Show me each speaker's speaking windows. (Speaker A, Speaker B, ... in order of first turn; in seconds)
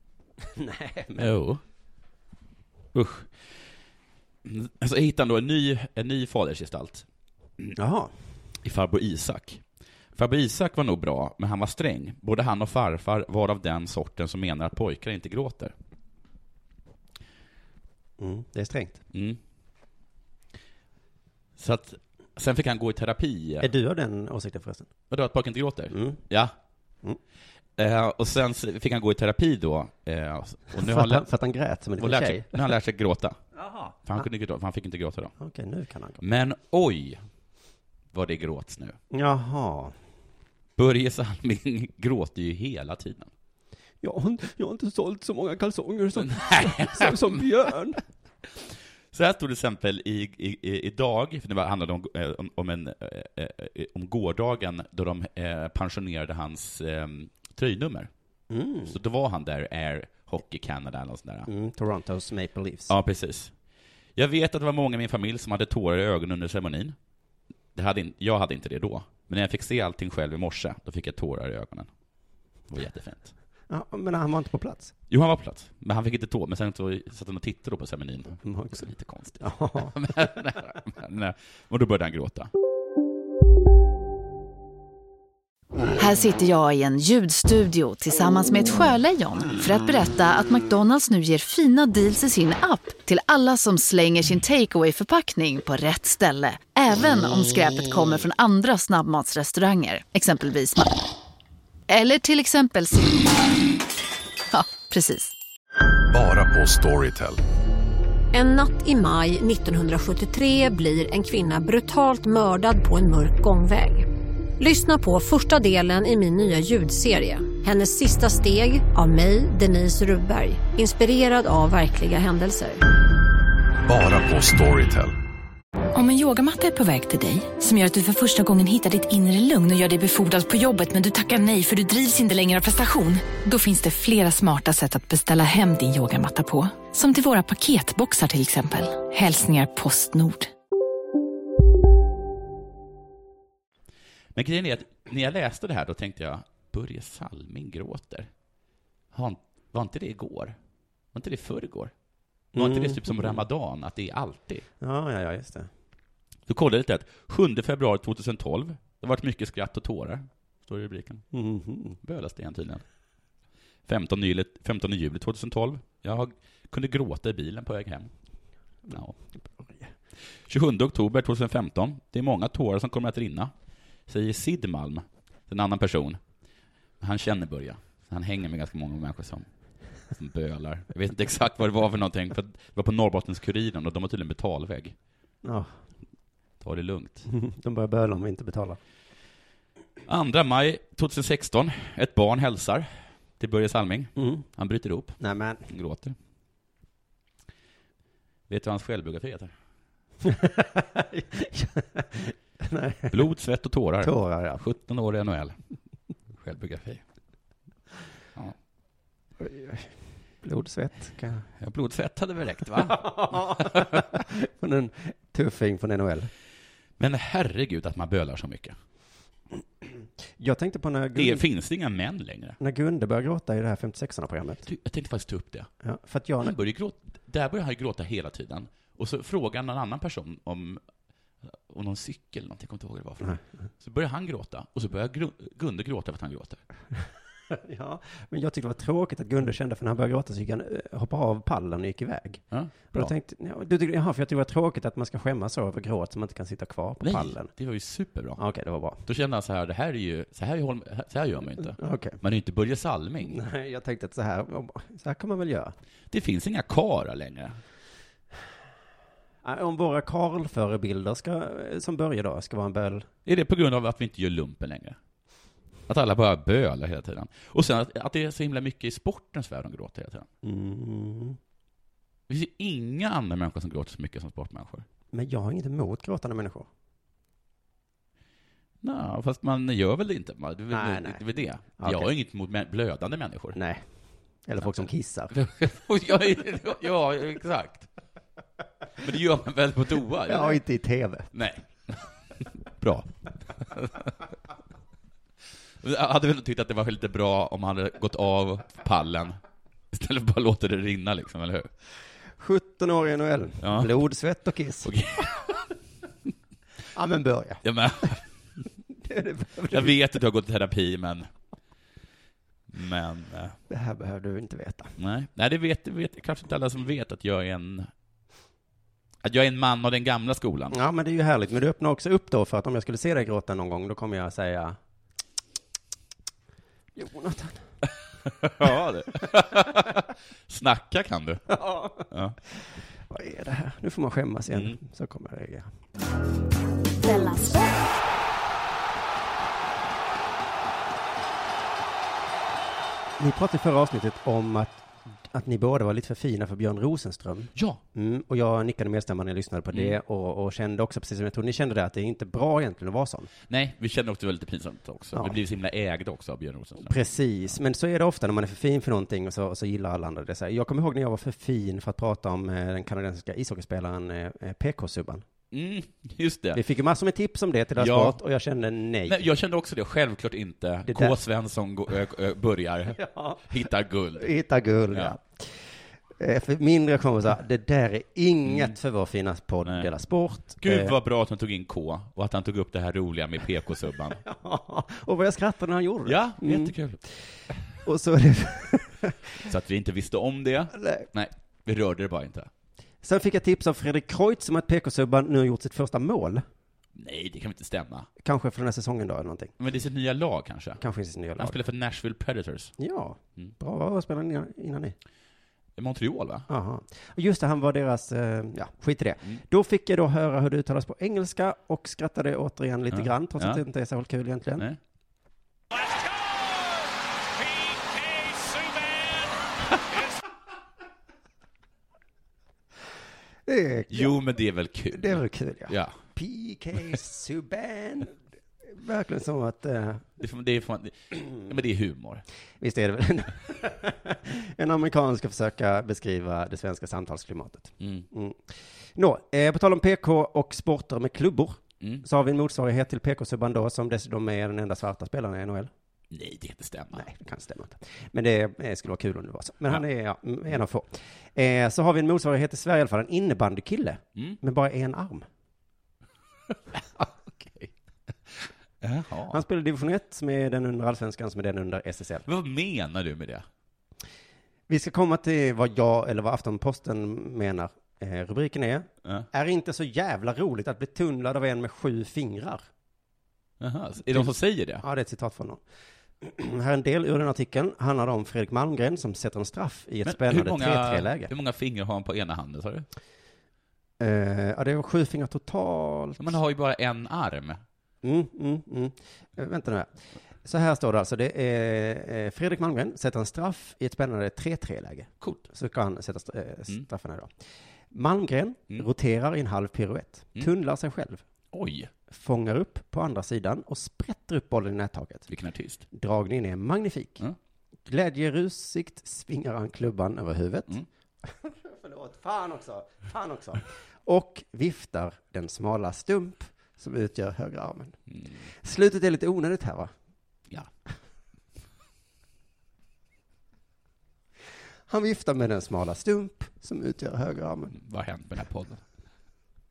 Speaker A: 0.6-1.3, 7.8-8.1, 18.2-19.0, 23.6-24.9, 25.9-26.2, 30.8-32.7, 35.4-36.2, 39.1-39.9, 44.0-48.0, 58.5-58.9, 61.5-62.9, 73.7-74.9, 78.4-78.8, 79.4-80.0, 152.5-153.4, 154.8-155.7, 161.3-162.0, 168.9-169.9, 185.4-185.7, 187.3-188.8, 194.2-194.4, 195.2-195.7, 200.2-203.2, 204.0-204.6, 209.4-211.5, 212.8-216.3, 219.8-221.4, 222.6-224.7, 225.8-226.5, 237.5-247.5, 248.4-249.0, 251.8-252.2, 253.2-255.7, 259.4-263.1, 270.4-271.4, 275.1-276.7, 280.7-281.2, 281.8-282.1, 283.5-283.8, 284.4-285.3, 290.3-291.3, 302.4-304.9, 306.9-307.6, 309.0-309.9, 313.7-314.9, 320.7-324.8, 326.9-327.6, 331.6-332.0, 333.1-335.7, 343.2-353.3, 356.8-365.2, 366.5-369.2, 370.9-371.1, 373.0-373.4, 374.2-375.5, 376.2-380.9, 384.2-386.7, 387.8-389.4, 390.7-391.1, 393.0-396.4, 398.2-399.5, 400.8-401.6, 402.8-404.9, 406.5-414.7, 423.4-424.2, 424.9-428.1, 428.7-430.0, 432.6-445.7, 446.9-455.2, 457.0-457.7, 459.3-462.2, 464.7-472.7, 474.1-475.6, 476.2-481.3, 484.0-486.4, 488.0-489.9, 490.4-497.3, 497.9-501.2, 502.1-505.3, 505.9-507.2, 507.9-518.0, 518.6-519.9, 524.9-527.8
Speaker B: 1.2-1.6, 2.9-3.3, 4.4-7.0, 8.6-9.6, 10.2-15.7, 19.1-19.4, 21.6-23.7, 25.1-26.5, 27.8-31.3, 32.0-33.4, 34.0-35.3, 36.2-37.2, 38.1-39.0, 40.8-43.3, 46.1-47.4, 48.5-58.1, 58.9-61.5, 62.9-63.5, 64.2-67.0, 67.7-71.9, 72.7-73.3, 75.1-82.5, 144.3-148.3, 149.1-150.6, 151.1-151.9, 152.6-154.6, 156.5-161.2, 162.0-162.8, 163.9-168.1, 170.5-173.5, 174.1-176.2, 177.0-179.5, 180.1-184.9, 186.6-187.3, 190.1-192.9, 193.4-196.1, 198.5-199.5, 203.1-205.6, 206.4-207.0, 211.6-214.0, 217.0-218.8, 221.1-222.6, 224.6-225.7, 226.4-230.8, 231.4-236.6, 242.5-243.1, 247.0-248.4, 249.0-253.4, 256.1-257.6, 263.2-265.0, 265.9-270.3, 272.3-274.8, 278.8-283.6, 285.3-287.9, 289.0-290.6, 291.3-292.1, 292.8-294.2, 295.8-299.4, 299.9-301.7, 303.6-304.0, 304.8-305.6, 307.6-308.2, 309.7-311.3, 312.7-313.6, 315.0-317.9, 319.2-320.8, 328.2-332.4, 347.5-347.8, 353.5-357.0, 365.5-366.6, 367.8-368.2, 369.1-374.3, 374.9-375.2, 379.6-379.9, 380.6-384.2, 386.0-387.0, 389.4-392.5, 396.9-398.1, 399.6-400.8, 401.4-402.7, 405.8-406.5, 412.9-413.6, 423.9-426.0, 430.2-432.2, 437.8-438.1, 446.1-447.1, 458.8-459.4, 462.2-463.4, 473.6-474.8, 480.0-482.9, 486.2-487.6, 501.5-501.9, 505.3-505.8, 527.7-528.8
Speaker C: 86.0-100.9, 101.9-103.5, 104.5-105.3
Speaker D: 106.1-107.4, 123.8-125.1
Speaker E: 108.3-114.1, 114.6-122.8
Speaker F: 125.9-140.5